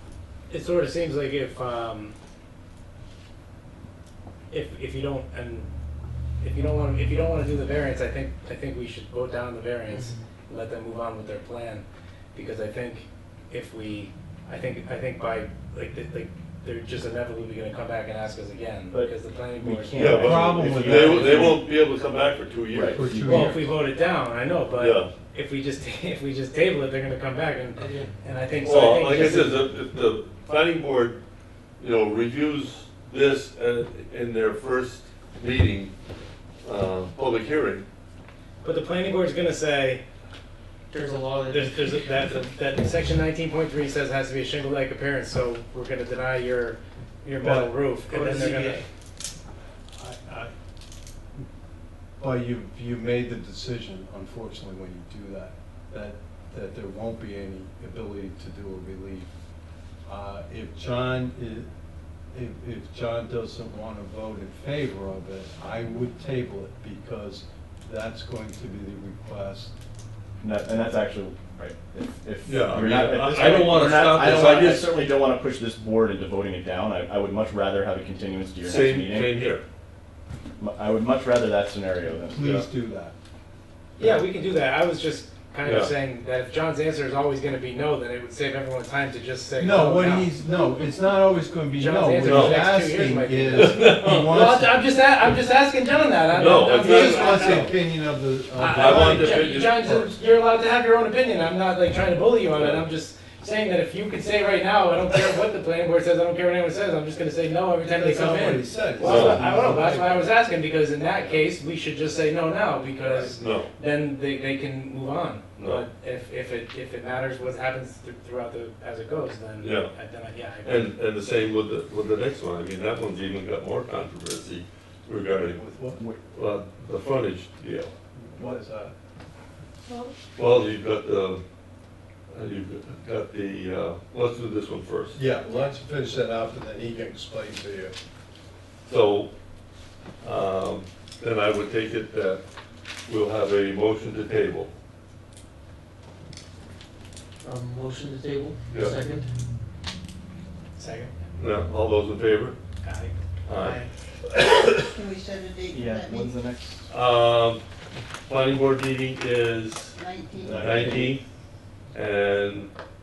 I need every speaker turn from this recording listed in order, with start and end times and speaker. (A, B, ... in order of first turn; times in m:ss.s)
0:00.5-0:02.1 A
0:04.5-0:05.7 A
0:06.4-0:20.1 A
0:09.9-0:10.2 B
0:18.9-0:21.2 C
0:20.0-0:23.5 D
0:20.1-0:21.6 E
0:20.8-0:21.0 A
0:22.7-0:23.0 C
0:22.9-0:23.7 E
0:23.2-0:29.6 A
0:24.8-0:25.1 D
0:27.8-0:28.1 B
0:28.6-0:31.2 D
0:31.8-0:35.9 D
0:36.6-0:37.8 D
0:38.6-0:40.0 A
0:40.9-0:42.3 B
0:41.5-0:48.8 A
0:47.4-0:47.7 E
0:48.1-0:48.9 B
0:49.9-0:50.5 E
0:52.2-0:59.3 E
1:00.0-1:01.7 E
1:02.3-1:09.7 E
1:10.4-1:19.3 C
1:12.4-1:14.9 D
1:18.6-1:19.6 D
1:20.6-1:22.4 C
1:22.2-1:23.1 E
1:22.4-1:22.6 D
1:24.0-1:30.4 A
1:25.6-1:25.9 D
1:29.6-1:34.7 E
1:31.7-1:37.8 A
1:32.2-1:32.6 D
1:33.6-1:34.3 D
1:36.3-1:37.7 D
1:36.8-1:40.2 E
1:38.5-2:00.9 A
1:38.7-1:39.7 D
1:42.6-1:42.8 D
1:47.9-1:50.3 E
1:49.0-1:49.7 D
1:53.2-1:53.7 D
1:55.6-1:55.8 D
1:59.6-1:59.9 D
2:00.6-2:05.6 D
2:05.4-2:06.0 E
2:06.3-2:07.9 D
2:08.1-2:08.9 E
2:09.9-2:10.1 F
2:10.4-2:11.4 D
2:12.3-2:15.2 D
2:15.1-2:17.9 E
2:15.4-2:15.7 F
2:18.9-2:19.3 D
2:20.2-2:22.4 D
2:23.1-2:24.7 D
2:27.4-2:29.3 B
2:28.7-2:29.0 D
2:30.8-2:31.1 A
2:31.4-2:32.6 D
2:32.8-2:33.1 A
2:33.5-2:33.8 D
2:33.5-2:33.9 B
2:34.8-2:36.4 F
2:35.7-2:36.9 C
2:36.9-2:37.6 D
2:38.3-2:41.2 D
2:39.9-2:40.8 F
2:40.4-2:41.1 E
2:40.4-2:41.0 C
2:41.9-2:42.7 D